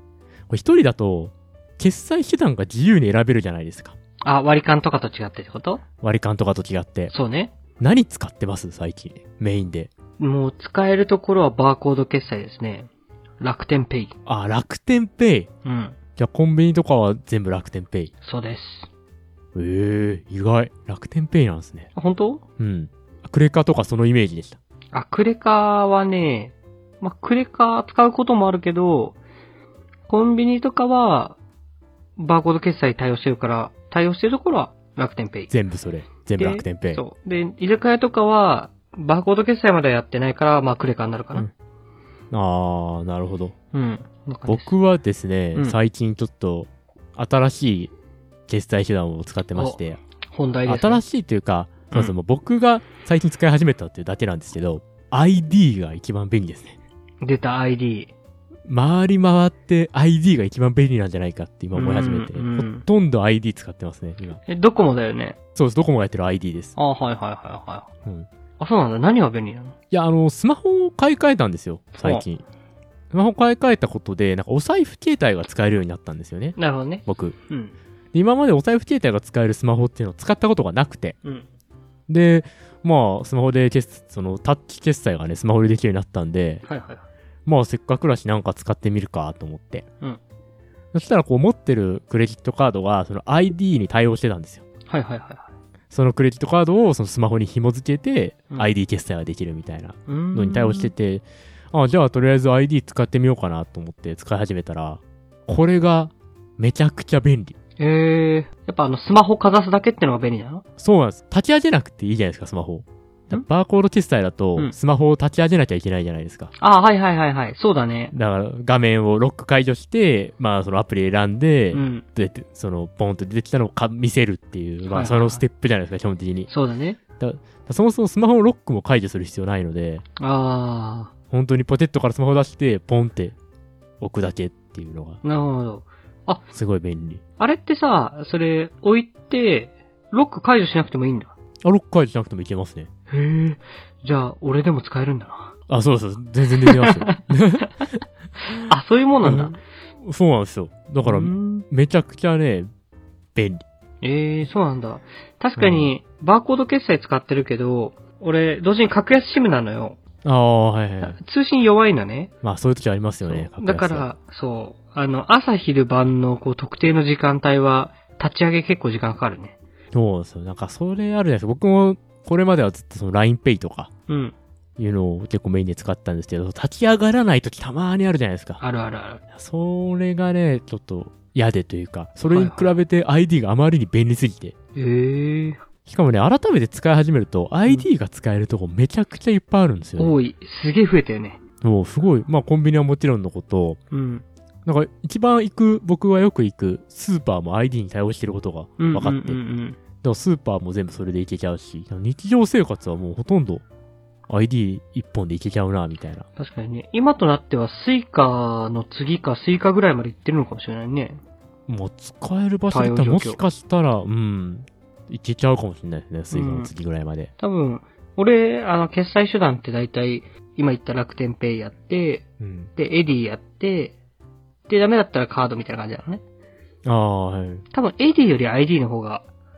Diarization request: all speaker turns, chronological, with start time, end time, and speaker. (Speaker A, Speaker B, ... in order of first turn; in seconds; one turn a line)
Speaker A: 0.5-3.9
Speaker B: 4.2-5.8
Speaker A: 6.0-7.1
Speaker B: 7.1-7.5
Speaker A: 7.8-9.9
Speaker B: 10.2-12.9
Speaker B: 13.4-14.1
Speaker A: 14.2-15.5
Speaker B: 15.6-16.0
Speaker A: 16.1-18.1
Speaker B: 18.2-18.9
Speaker A: 19.5-21.9
Speaker B: 21.9-22.4
Speaker A: 22.6-24.6
Speaker B: 24.9-29.2
Speaker B: 30.1-31.4
Speaker B: 32.2-35.5
Speaker A: 35.5-37.0
Speaker B: 36.4-41.5
Speaker A: 42.3-43.5
Speaker B: 43.7-44.7
Speaker A: 44.5-47.9
Speaker A: 48.5-50.0
Speaker B: 49.5-49.8
Speaker B: 50.3-51.0
Speaker A: 50.6-56.8
Speaker B: 57.2-58.1
Speaker A: 58.7-64.4
Speaker B: 61.7-62.9
Speaker B: 64.5-65.4
Speaker A: 65.5-66.7
Speaker B: 66.8-67.9
Speaker B: 68.6-69.7
Speaker A: 69.9-72.4
Speaker B: 72.0-72.2
Speaker A: 73.1-77.3
Speaker B: 76.5-77.7
Speaker A: 78.1-81.2
Speaker B: 81.2-81.5
Speaker A: 82.1-86.6
Speaker B: 86.7-87.0
Speaker A: 87.5-89.8
Speaker A: 90.9-94.6
Speaker B: 94.9-95.5
Speaker A: 95.9-107.5
Speaker B: 100.1-100.9
Speaker B: 107.8-110.6
Speaker A: 110.8-116.5
Speaker B: 116.6-118.1
Speaker A: 118.1-126.5
Speaker B: 121.7-122.0
Speaker B: 124.9-125.4
Speaker B: 126.5-127.0
Speaker A: 127.2-130.0
Speaker B: 130.2-131.1
Speaker A: 131.3-133.3
Speaker A: 134.0-135.2
Speaker B: 135.2-136.4
Speaker A: 136.5-137.2
Speaker B: 137.4-141.3
Speaker A: 141.6-142.9
Speaker B: 143.1-145.5
Speaker A: 145.7-148.7
Speaker B: 146.6-147.2
Speaker B: 148.7-149.6
Speaker A: 149.2-152.7
Speaker B: 151.0-151.7
Speaker A: 153.3-153.6
Speaker B: 154.0-160.0
Speaker A: 155.6-155.9
Speaker A: 160.2-161.2
Speaker B: 161.0-162.3
Speaker A: 162.4-164.1
Speaker B: 163.2-169.6
Speaker A: 169.9-173.9
Speaker B: 174.1-174.3
Speaker A: 174.8-178.6
Speaker B: 178.6-179.2
Speaker A: 179.3-184.5
Speaker B: 182.3-182.7
Speaker B: 184.7-185.6
Speaker A: 185.8-190.1
Speaker B: 190.0-191.4
Speaker A: 191.6-193.8
Speaker B: 193.9-194.2
Speaker A: 194.7-199.4
Speaker B: 198.8-199.8
Speaker A: 200.0-203.6
Speaker A: 204.3-206.2
Speaker B: 206.4-211.2
Speaker A: 211.7-217.3
Speaker B: 212.7-213.4
Speaker B: 216.3-216.7
Speaker B: 217.4-222.2
Speaker A: 222.4-222.7
Speaker B: 222.8-223.9
Speaker B: 224.7-226.2
Speaker A: 226.8-227.6
Speaker B: 227.7-229.2